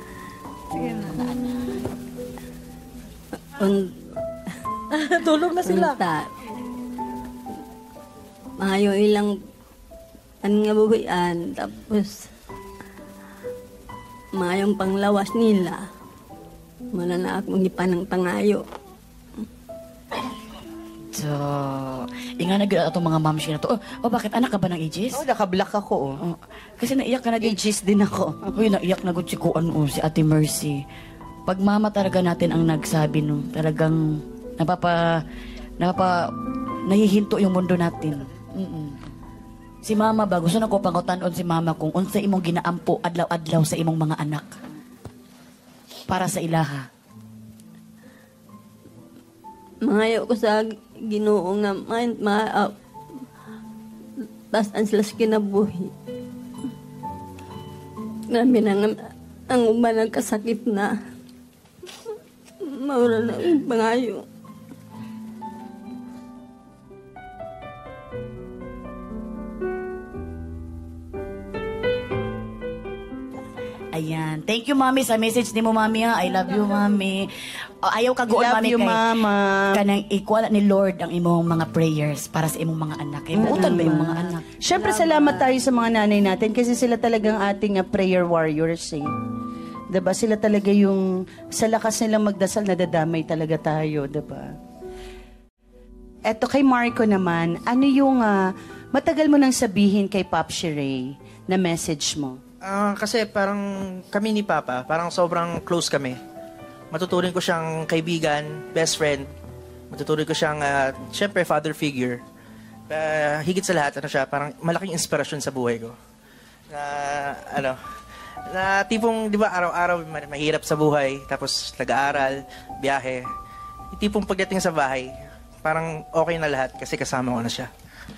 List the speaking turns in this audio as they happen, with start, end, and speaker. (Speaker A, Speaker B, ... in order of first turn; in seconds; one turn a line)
Speaker A: 0.8-1.8
Speaker B: 3.5-4.0
Speaker B: 4.9-6.3
Speaker B: 8.6-9.3
Speaker B: 10.4-12.2
Speaker B: 14.3-15.8
Speaker B: 16.9-18.6
Speaker A: 21.1-25.2
Speaker C: 25.1-26.2
Speaker A: 26.2-27.6
Speaker C: 27.4-28.5
Speaker A: 28.5-30.8
Speaker A: 31.5-35.0
Speaker A: 35.8-36.3
Speaker A: 36.8-39.1
Speaker A: 39.9-44.5
Speaker A: 46.1-46.9
Speaker B: 49.8-52.7
Speaker B: 54.5-55.9
Speaker B: 58.3-61.0
Speaker B: 62.6-64.3
Speaker A: 73.9-77.3
Speaker A: 77.8-79.0
Speaker C: 78.3-79.8
Speaker A: 79.7-84.5
Speaker C: 83.3-89.1
Speaker B: 84.8-85.4
Speaker C: 89.9-94.5
Speaker C: 96.3-102.4
Speaker D: 102.6-106.2
Speaker D: 106.9-109.3
Speaker D: 109.9-112.2
Speaker D: 112.9-116.0
Speaker D: 116.7-117.8
Speaker D: 118.5-123.2
Speaker D: 123.9-125.1
Speaker D: 125.6-127.7